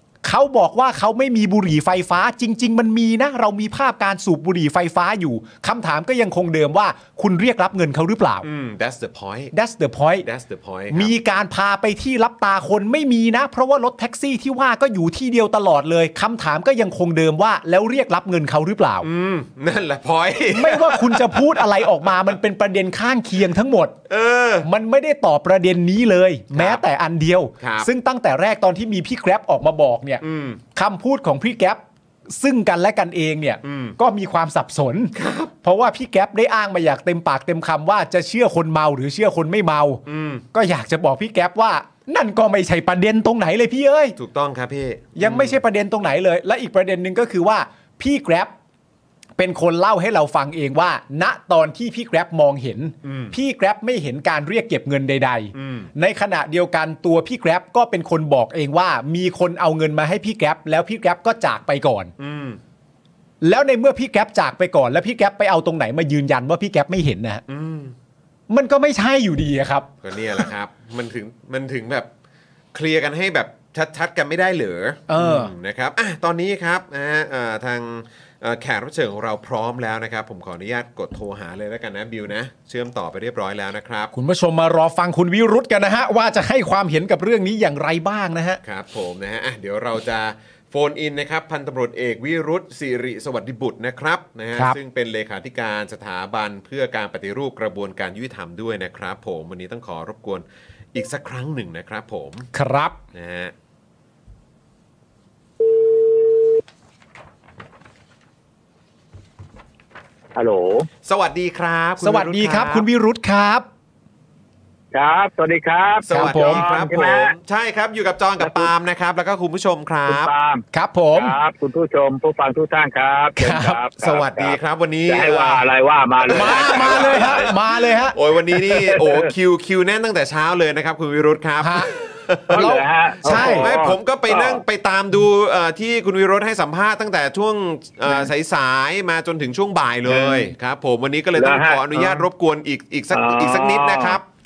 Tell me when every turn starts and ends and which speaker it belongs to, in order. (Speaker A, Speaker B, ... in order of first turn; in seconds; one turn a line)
Speaker A: 0.2-8.5
Speaker B: 8.4-9.5
Speaker A: 9.5-10.3
Speaker B: 10.2-11.1
Speaker A: 10.9-19.1
Speaker B: 19.0-21.7
Speaker A: 20.5-24.0
Speaker B: 24.1-24.7
Speaker A: 24.6-30.2
Speaker B: 26.5-26.8
Speaker B: 27.6-27.9
Speaker B: 30.2-30.6
Speaker A: 30.7-44.2
Speaker B: 33.6-34.0
Speaker B: 35.1-35.5
Speaker B: 40.1-40.4
Speaker B: 44.2-45.6
Speaker A: 45.2-48.5
Speaker A: 49.4-62.1
Speaker B: 53.0-53.4
Speaker B: 55.5-55.9
Speaker B: 62.2-62.6
Speaker A: 63.4-67.4
Speaker B: 67.5-68.0
Speaker A: 68.5-70.5
Speaker B: 70.0-72.1
Speaker B: 72.7-84.1
Speaker A: 75.1-75.5
Speaker A: 84.1-88.6
Speaker B: 88.6-102.5
Speaker A: 102.5-103.0
Speaker B: 103.1-103.5
Speaker C: 110.3-110.9
Speaker B: 111.0-112.8
Speaker A: 112.0-113.7
Speaker C: 114.9-117.3
Speaker B: 116.0-120.3
Speaker A: 116.1-116.6
Speaker C: 118.4-118.7
Speaker C: 120.1-127.5
Speaker A: 120.7-121.3
Speaker A: 123.4-123.8
Speaker B: 124.0-125.6
Speaker B: 126.3-132.7
Speaker A: 126.3-128.2
Speaker C: 128.5-129.3
Speaker A: 131.6-131.9
Speaker C: 132.5-134.6
Speaker A: 132.5-133.7
Speaker B: 133.3-144.2
Speaker C: 140.1-140.5
Speaker C: 141.4-142.2
Speaker C: 143.1-144.2